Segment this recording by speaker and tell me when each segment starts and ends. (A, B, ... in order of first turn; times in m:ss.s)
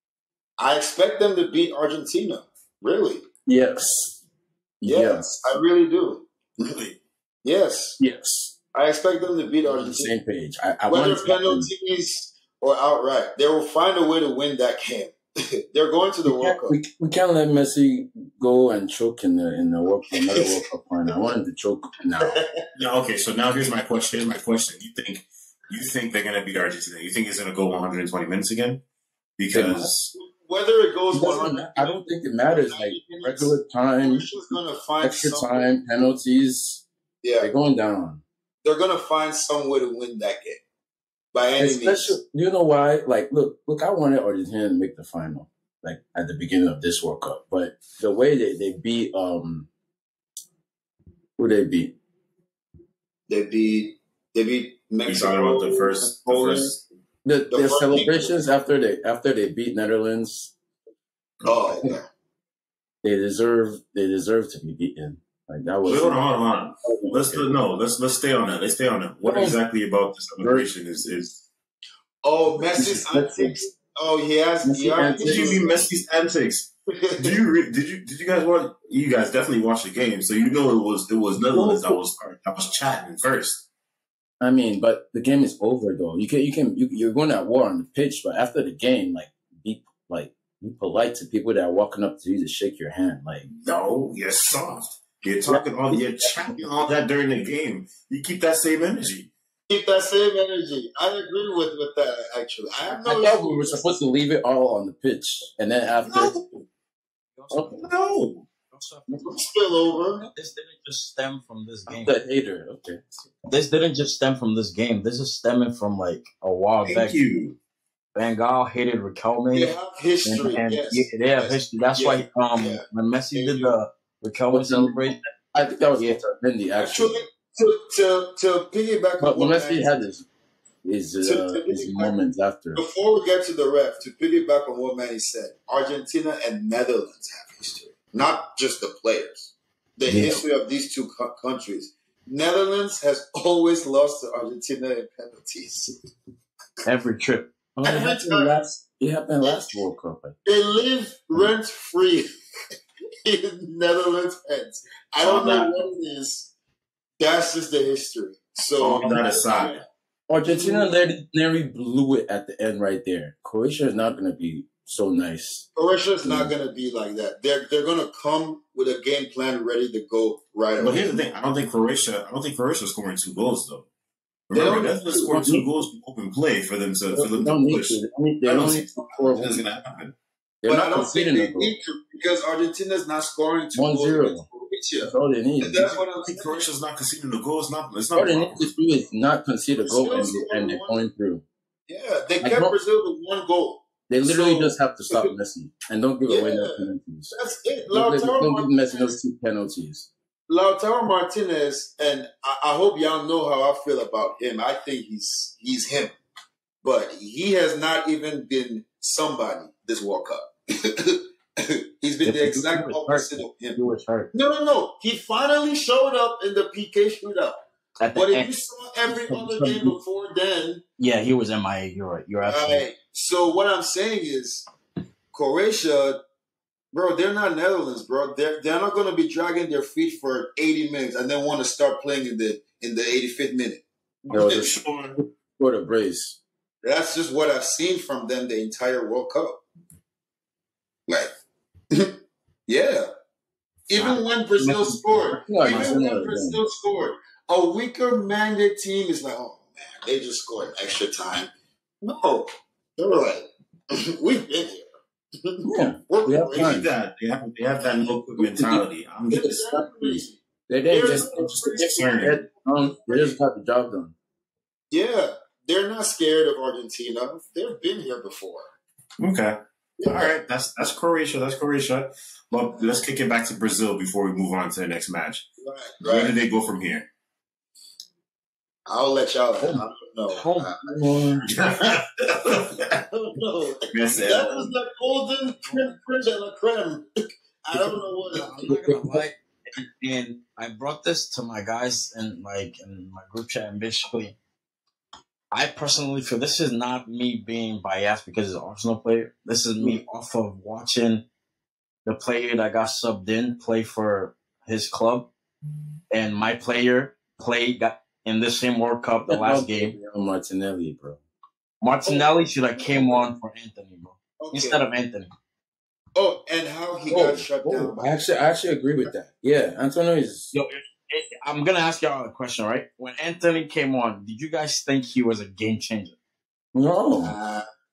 0:00.6-0:03.2 A
0:03.4-0:04.2 B
0:04.8-0:05.4 B
0:04.8-0:08.0 A
0:08.0-0:08.5 B
0:08.7-0:10.1 A
0:09.7-0:11.7 B
0:10.9-0:16.8 A
0:16.3-0:22.4 B
0:22.2-0:22.5 A
0:22.7-0:28.8 C
0:29.4-0:30.1 C
0:29.5-0:29.9 B
0:30.1-0:35.7 A
0:31.1-0:34.2 B
0:35.0-0:36.8 B
0:37.2-0:37.5 A
0:37.4-0:38.2 B
0:38.6-0:40.6 A
0:41.3-0:42.2 A
0:41.6-0:49.7 B
0:51.4-0:51.9 B
0:53.3-0:56.8 A
0:55.0-0:56.8 C
0:57.2-1:00.5 B
0:57.5-0:58.3 A
1:01.4-1:02.1 A
1:03.0-1:06.3 B
1:05.8-1:11.4 C
1:06.8-1:07.5 B
1:09.2-1:09.6 B
1:10.4-1:10.7 B
1:12.2-1:15.8 A
1:12.6-1:13.6 B
1:14.6-1:15.6 B
1:15.0-1:23.7 C
1:16.9-1:17.4 A
1:21.5-1:22.0 B
1:24.4-1:33.5 B
1:33.5-1:39.3 C
1:35.5-1:36.3 B
1:39.7-1:43.9 A
1:42.9-1:46.3 B
1:46.0-1:46.6 C
1:47.4-1:47.9 D
1:47.5-1:47.8 B
1:47.8-1:48.4 C
1:48.7-1:49.3 D
1:49.2-1:50.2 A
1:50.2-1:52.2 D
1:51.9-1:53.3 B
1:53.5-1:57.2 D
1:56.8-1:57.6 C
1:58.2-2:05.2 D
1:59.5-2:03.8 A
2:04.5-2:07.2 B
2:06.8-2:10.0 A
2:09.2-2:10.2 B
2:10.8-2:12.8 B
2:11.2-2:12.1 A
2:12.7-2:25.9 A
2:20.0-2:20.4 B
2:26.8-2:27.5 D
2:27.8-2:30.3 B
2:27.8-2:28.6 A
2:29.4-2:29.8 A
2:30.4-2:32.3 A
2:33.2-2:36.5 A
2:35.2-2:35.7 C
2:37.2-2:39.8 A
2:38.8-2:39.8 C
2:40.3-2:45.6 B
2:40.5-2:40.9 A
2:45.7-2:51.0 A
2:46.2-2:46.5 B
2:50.8-2:53.9 C
2:54.5-3:00.1 C
2:54.5-2:55.3 A
2:55.3-2:55.7 B
2:57.1-2:59.6 B
3:00.6-3:01.7 B
3:00.7-3:06.7 A
3:03.7-3:04.4 B
3:05.0-3:06.0 B
3:06.2-3:08.8 C
3:08.2-3:11.4 B
3:09.8-3:11.0 A
3:11.9-3:15.3 A
3:12.4-3:12.7 B
3:14.1-3:17.3 B
3:16.3-3:19.2 A
3:17.9-3:20.1 B
3:20.5-3:26.2 A
3:26.8-3:33.8 A
3:32.2-3:34.3 D
3:34.3-3:37.6 A
3:38.0-3:38.5 D
3:38.1-3:40.8 A
3:39.1-3:39.9 D
3:41.0-3:42.8 D
3:42.4-3:44.6 A
3:45.3-3:46.2 A
3:46.9-3:53.8 A
3:54.2-3:55.2 C
3:54.3-3:56.4 B
3:56.8-3:59.6 A
4:02.7-4:03.1 A
4:03.9-4:11.5 A
4:04.0-4:06.6 B
4:05.6-4:06.0 D
4:12.0-4:14.8 A
4:15.4-4:16.9 A
4:15.6-4:16.9 B
4:16.5-4:19.7 C
4:17.8-4:18.1 A
4:18.4-4:24.1 B
4:19.3-4:22.1 A
4:21.2-4:22.4 C
4:23.0-4:23.4 A
4:24.9-4:28.7 A
4:29.2-4:35.5 C
4:30.0-4:30.3 A
4:35.6-4:36.4 A
4:36.0-4:37.1 C
4:38.9-4:41.0 A
4:40.4-4:40.7 D
4:40.9-4:41.4 B
4:41.5-4:43.0 C
4:43.1-4:47.0 A
4:43.9-4:44.7 C
4:47.6-4:48.7 A
4:48.4-4:54.3 D
4:48.6-4:49.2 B
4:55.5-5:01.2 D
5:02.0-5:05.3 D
5:06.1-5:09.9 D
5:09.3-5:11.2 B
5:11.8-5:15.3 D
5:12.9-5:13.2 A
5:14.4-5:14.8 A
5:16.1-5:18.4 A
5:17.1-5:20.5 B
5:20.5-5:26.2 D
5:26.7-5:27.4 B
5:27.2-5:27.6 A